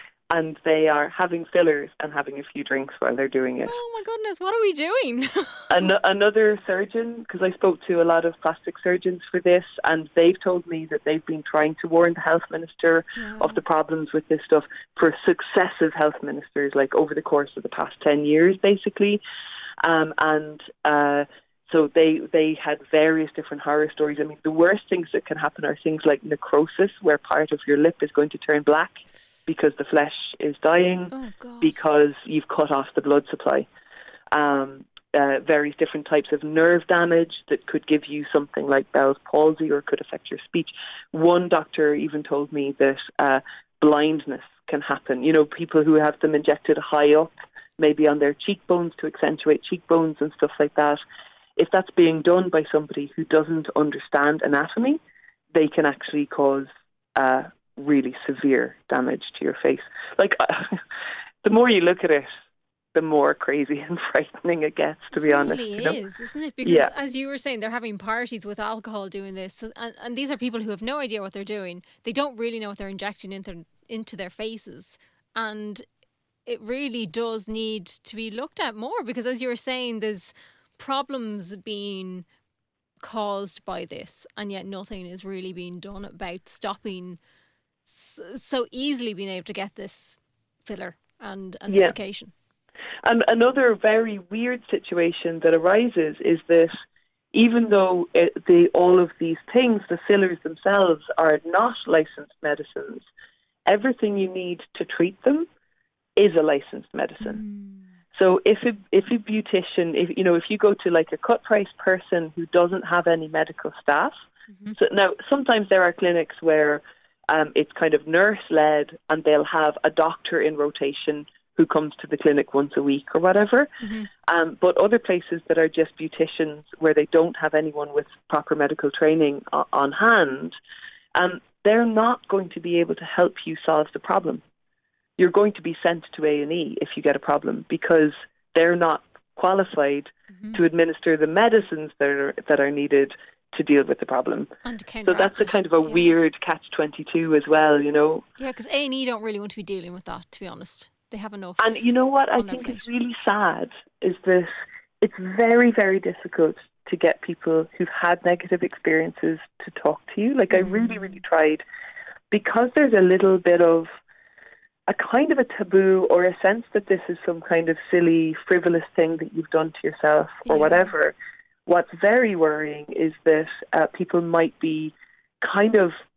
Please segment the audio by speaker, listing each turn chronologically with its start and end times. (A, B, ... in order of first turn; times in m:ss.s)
0:00.3-0:03.7 A
0:03.7-0:05.9 B
0:05.7-0:19.2 A
0:13.2-0:13.6 B
0:19.8-0:33.7 A
0:31.1-0:31.8 B
0:34.3-0:51.0 A
0:51.6-0:55.0 A
0:55.5-1:00.8 A
1:01.4-1:02.3 A
1:03.0-1:06.0 A
1:05.2-1:15.8 B
1:06.6-1:06.9 A
1:16.5-1:22.3 B
1:23.0-1:27.2 B
1:27.8-1:32.3 B
1:31.7-1:32.0 A
1:33.0-1:36.7 A
1:37.3-1:43.1 A
1:43.7-1:45.5 A
1:46.2-1:47.4 A
1:47.2-1:47.9 B
1:48.1-1:54.1 A
1:54.5-1:54.8 B
1:54.8-2:03.7 A
2:03.8-2:04.1 B
2:04.3-2:10.6 A
2:11.2-2:14.4 A
2:15.2-2:24.5 A
2:20.4-2:20.6 B
2:24.6-2:26.2 B
2:25.0-2:28.2 A
2:28.4-2:31.8 B
2:31.6-2:34.5 A
2:32.4-2:32.9 B
2:35.0-2:41.6 A
2:40.5-2:41.2 B
2:42.3-2:43.9 A
2:44.9-2:51.2 A
2:50.4-2:50.9 B
2:51.7-2:55.9 A